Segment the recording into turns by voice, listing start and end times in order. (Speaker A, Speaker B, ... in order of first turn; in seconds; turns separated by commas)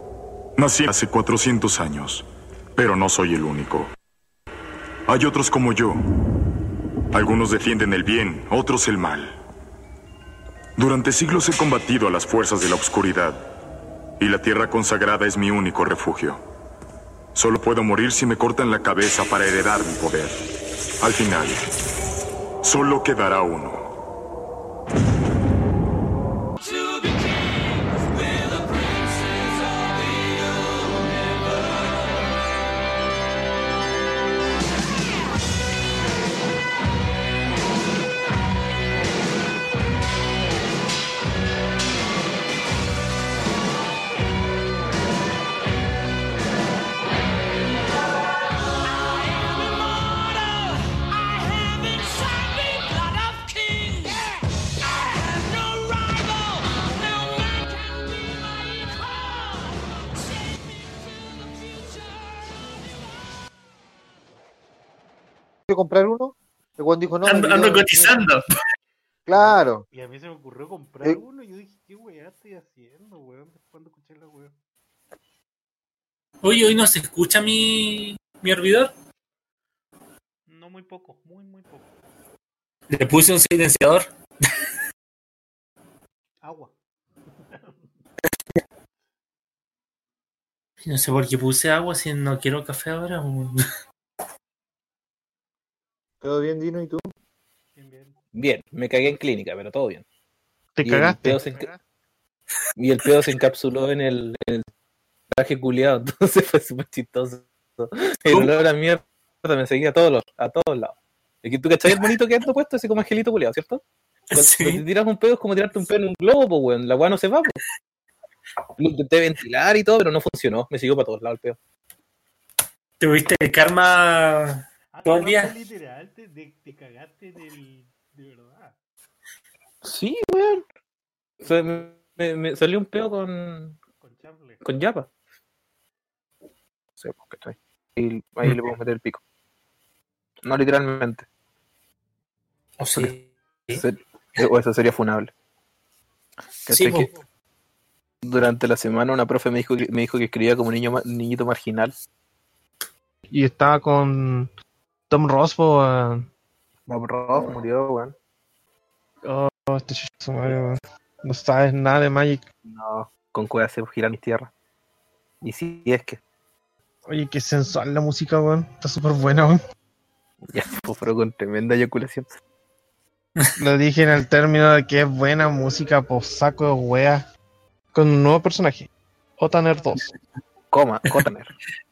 Speaker A: 0.6-2.2, Speaker A: 2.8-3.9, Speaker A: 5.1-6.0, Speaker A: 7.1-9.3, Speaker A: 10.8-13.4, Speaker A: 14.2-16.4, Speaker A: 17.3-20.3, Speaker A: 21.0-21.6, Speaker A: 22.6-23.9, Speaker B: 65.7-68.2, Speaker C: 67.2-68.4, Speaker B: 69.3-69.8, Speaker D: 69.3-74.5, Speaker C: 76.4-78.9, Speaker D: 80.5-81.9, Speaker C: 82.9-84.1, Speaker D: 86.4-86.7, Speaker D: 87.5-87.8, Speaker C: 90.8-93.5, Speaker B: 96.2-97.0, Speaker D: 97.8-98.2, Speaker E: 98.3-100.0, Speaker F: 100.8-101.4, Speaker E: 100.8-101.7, Speaker E: 102.8-104.7, Speaker E: 105.3-113.8, Speaker C: 114.3-114.8, Speaker E: 114.3-117.6, Speaker E: 118.8-121.6, Speaker C: 123.0-125.5, Speaker D: 124.9-128.7, Speaker E: 129.8-130.6, Speaker E: 131.4-133.8, Speaker D: 134.0-134.6, Speaker E: 134.6-135.1, Speaker E: 137.0-139.2, Speaker E: 140.4-141.2, Speaker C: 142.8-143.8, Speaker E: 143.8-145.3, Speaker E: 146.7-147.1, Speaker C: 146.7-147.1, Speaker E: 148.2-151.9, Speaker F: 153.3-154.5, Speaker F: 155.1-156.3, Speaker E: 156.9-158.1, Speaker F: 159.2-162.4, Speaker E: 162.7-164.5, Speaker E: 165.4-166.2, Speaker F: 167.1-169.6, Speaker E: 170.5-172.2, Speaker F: 173.6-177.2, Speaker F: 177.9-180.1, Speaker E: 180.7-181.5